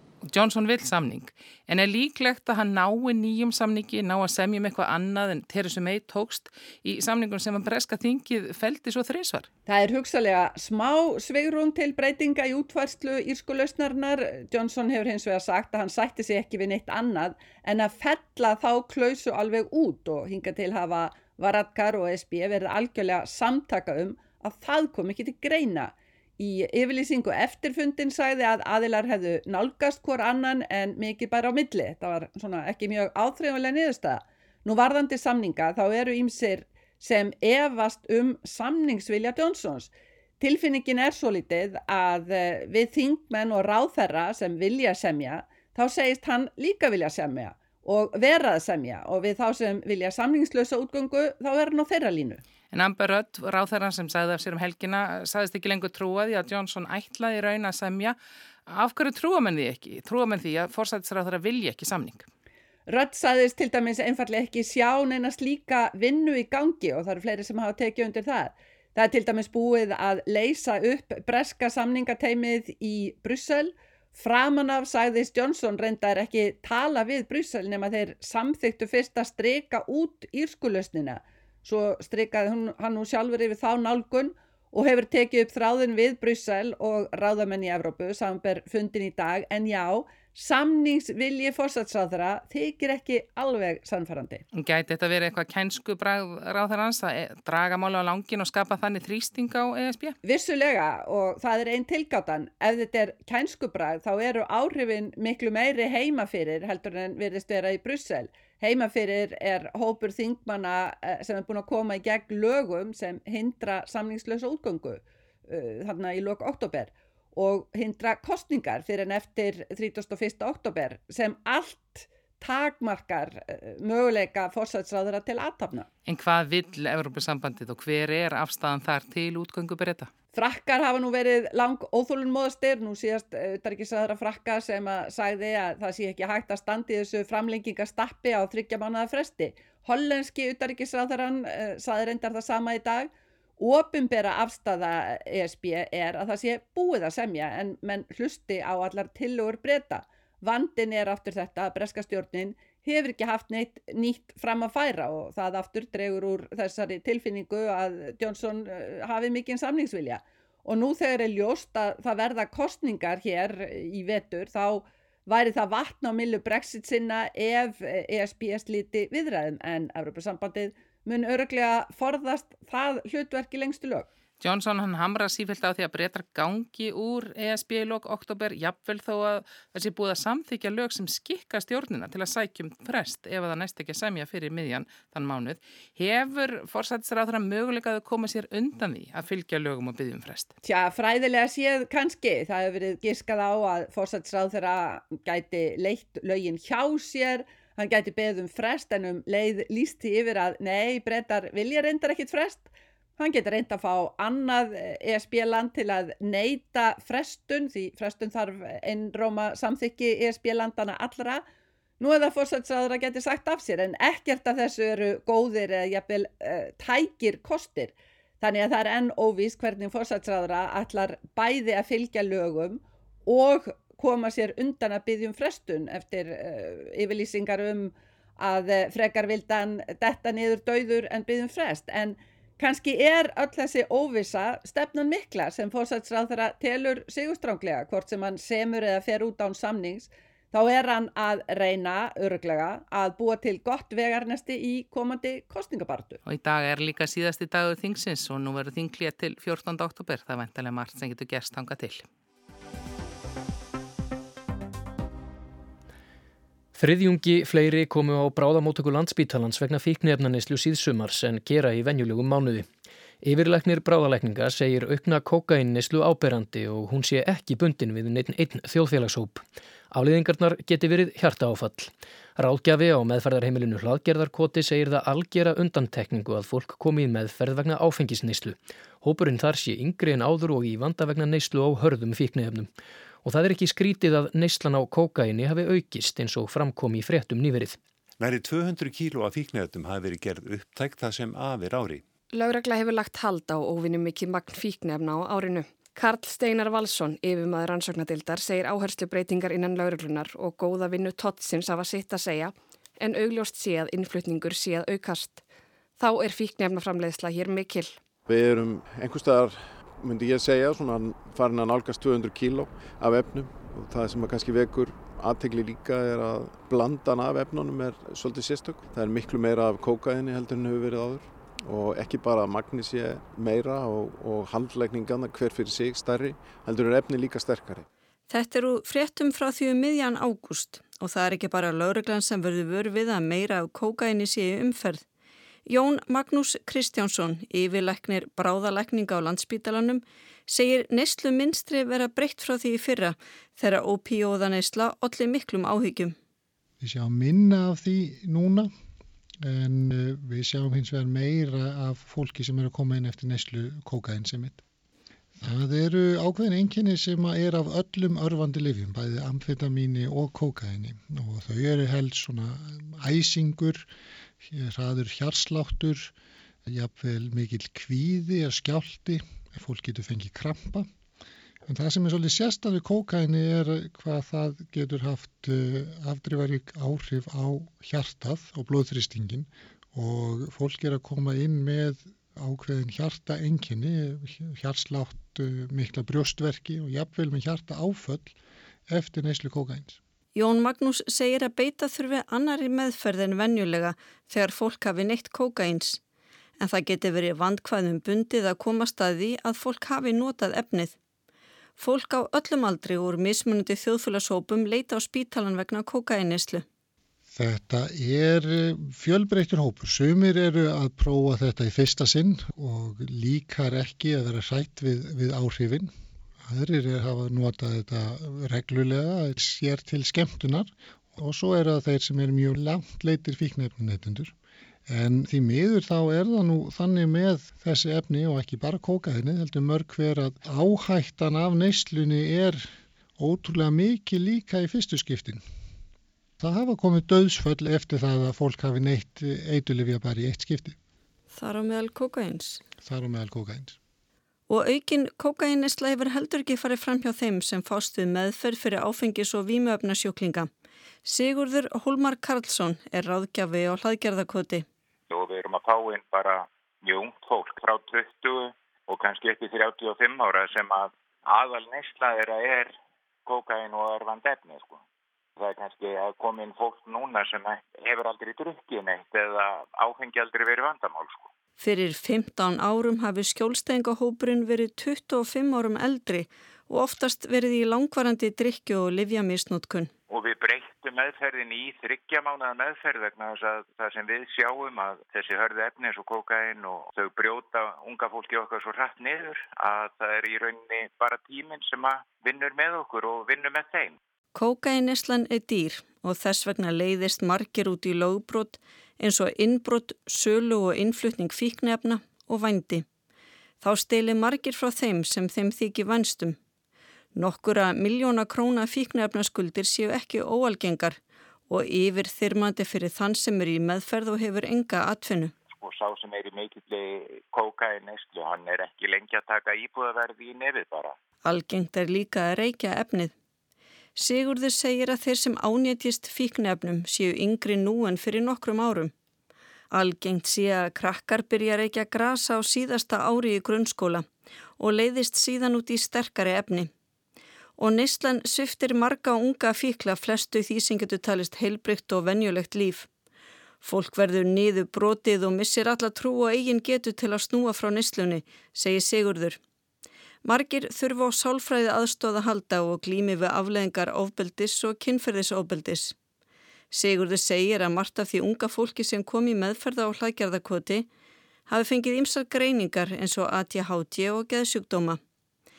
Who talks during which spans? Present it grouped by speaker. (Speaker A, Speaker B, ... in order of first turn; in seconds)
Speaker A: 0.2-9.5, 52.7-62.3, 94.5-100.2, 126.0-130.1, 174.4-190.5, 246.2-252.1
Speaker B: 9.7-52.4, 62.9-94.4, 100.2-125.9, 130.3-174.1, 190.6-211.4, 212.0-246.2
Speaker C: 256.7-262.6, 263.2-282.7, 283.2-287.8
Speaker D: 288.2-292.0
Speaker E: 292.3-305.4, 306.0-308.0
Speaker F: 308.2-327.9
Speaker G: 328.3-335.0, 335.6-346.1, 390.4-396.0, 396.6-400.9, 401.8-406.6, 441.3-442.6, 444.5-450.5, 451.0-454.6, 471.6-479.9, 494.3-502.9, 503.6-506.4, 507.1-511.0, 511.5-515.3, 521.2-523.1, 523.9-528.9, 529.7-534.1, 534.6-536.7, 537.6-542.9, 543.6-549.4, 550.2-555.9, 556.7-560.9, 561.5-565.0
Speaker H: 346.8-348.7, 349.4-354.6, 355.4-363.9, 364.5-366.1, 366.7-370.9, 371.7-388.4, 388.9-390.0, 407.3-415.9, 416.5-424.3, 424.9-432.7, 433.2-435.4, 436.4-440.8, 442.8-443.8
Speaker I: 455.1-462.7, 463.2-464.8, 465.4-471.3, 480.1-493.9, 515.5-520.9